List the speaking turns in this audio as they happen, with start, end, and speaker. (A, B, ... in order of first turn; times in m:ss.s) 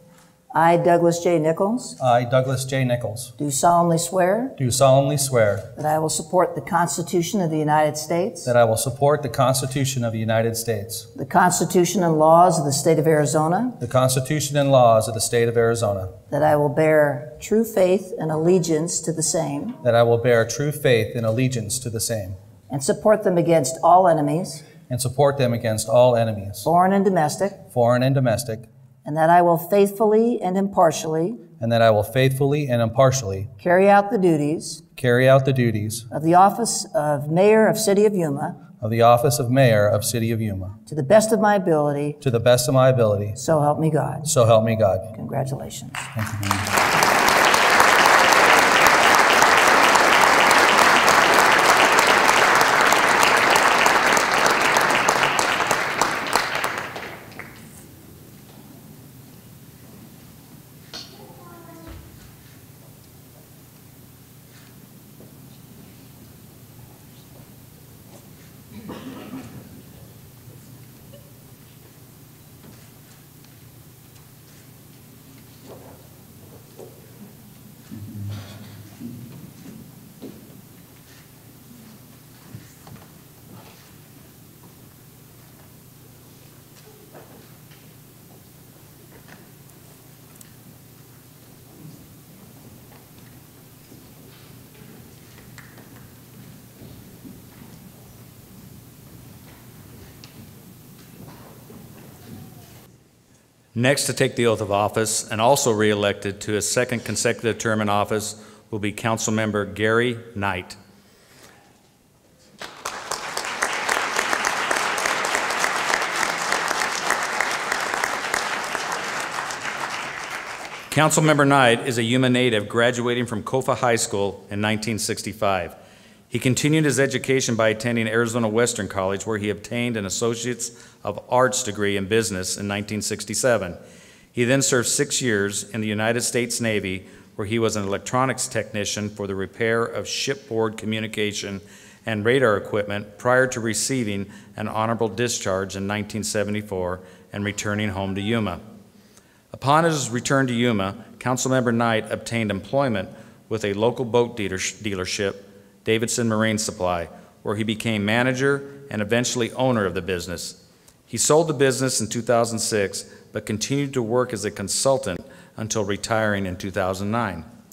0:00.5-0:02.0 A
0:02.0-0:03.3 B
0:03.4-0:04.6 A
0:04.6-0:05.7 B
0:05.8-0:08.5 A
0:08.5-0:11.1 B
0:11.1-0:13.8 A
0:13.8-0:16.1 B
0:16.3-0:19.8 A
0:19.8-0:22.4 B
0:22.7-0:24.7 A
0:24.9-0:26.7 B
0:26.6-0:27.6 A
0:27.7-0:28.7 B
0:29.0-0:31.4 A
0:31.6-0:33.5 B
0:33.6-0:34.8 A
0:35.0-0:36.1 B
0:36.1-0:38.6 A
0:38.8-0:40.8 B
0:40.9-0:42.2 A
0:42.2-0:43.4 B
0:43.4-0:44.3 A
0:44.2-0:45.1 B
0:45.1-0:46.1 A
0:46.2-0:46.8 B
1:43.8-1:50.8 C
2:00.9-2:05.8 C
2:06.3-2:13.8 C
2:14.3-2:28.6 C
2:29.5-2:47.5 C